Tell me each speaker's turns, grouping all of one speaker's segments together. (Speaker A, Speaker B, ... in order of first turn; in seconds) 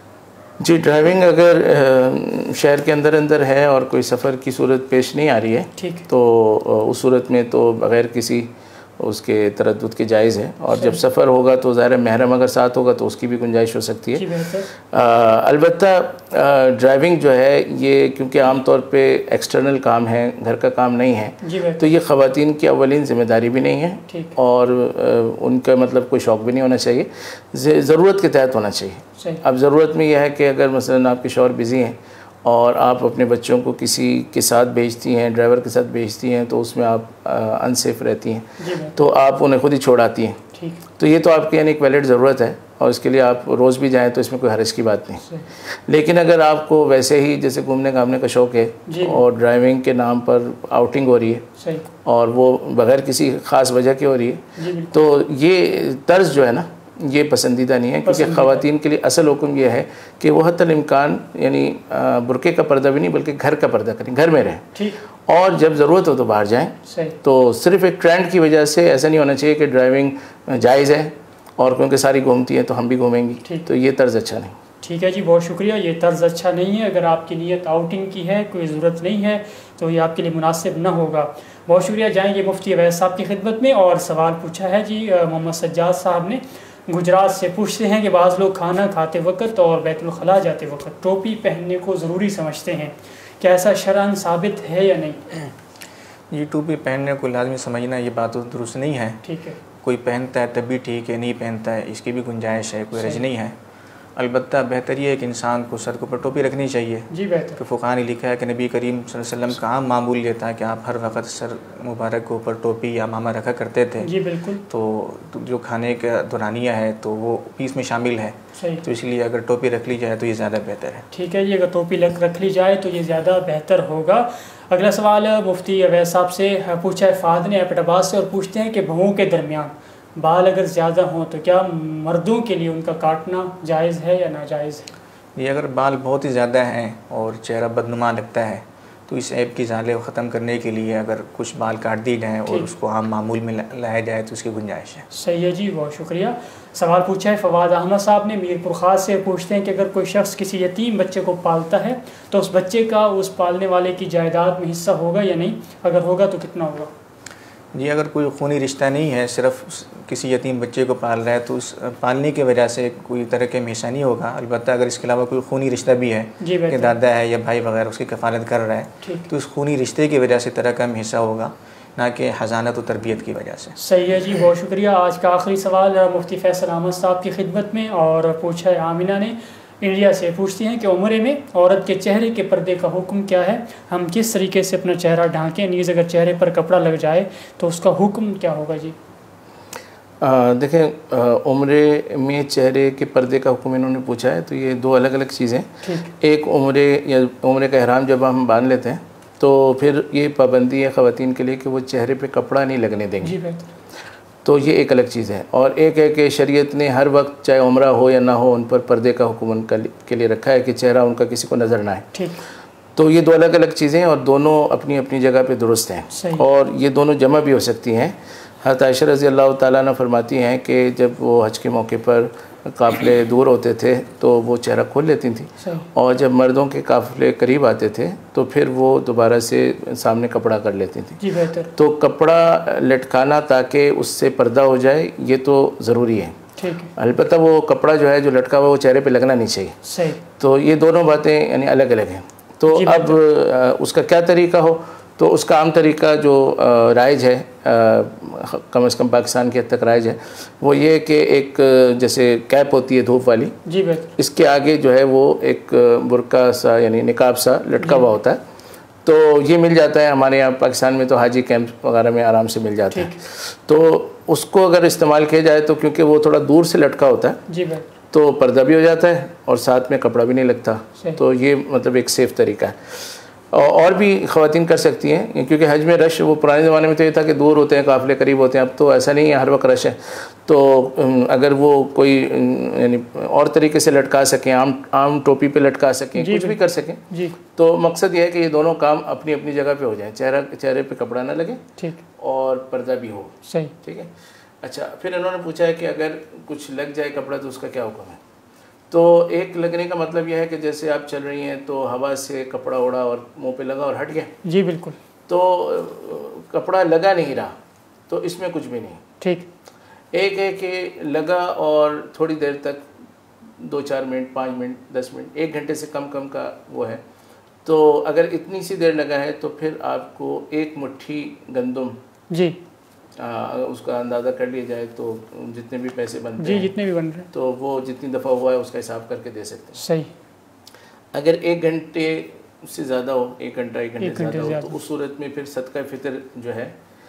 Speaker A: 0.6-40.4, 41.0-51.5, 52.0-64.7, 65.3-74.5, 190.2-203.3, 204.4-212.1, 212.9-239.8, 240.4-253.6, 254.2-258.4, 259.1-267.4, 268.1-291.6, 292.2-294.1, 294.6-298.2, 298.9-304.3, 305.3-307.5, 308.1-309.0, 310.1-312.9, 313.6-317.0, 317.6-322.0, 323.2-326.7, 327.3-329.8, 331.1-336.7
Speaker B: 5.8-6.0, 10.7-11.0, 14.1-14.7, 21.4-21.9, 24.1-24.3, 38.6-38.9, 40.5-40.8, 48.9-49.2, 51.6-51.9, 54.6-54.9, 58.0-58.6, 66.8-67.1, 74.8-95.5, 99.2-99.6, 103.0-103.2, 107.1-107.6, 114.0-114.6, 118.6-118.8, 121.1-134.9, 145.1-156.9, 166.4-166.9, 169.0-169.3, 173.8-188.9, 195.8-196.1, 203.2-203.7, 212.1-212.4, 216.1-216.4, 225.6-225.8, 231.2-231.7, 236.6-236.9, 239.8-240.2, 242.7-243.1, 253.7-254.1, 257.8-258.1, 262.9-263.2, 267.5-267.9, 286.2-286.6, 287.1-287.4, 293.4-293.7, 304.4-305.0, 309.2-309.5, 322.3-322.6, 326.4-327.3, 329.8-330.1, 334.0-334.7
Speaker C: 96.3-99.2, 99.8-103.5, 104.2-121.0, 135.3-145.1, 157.7-173.8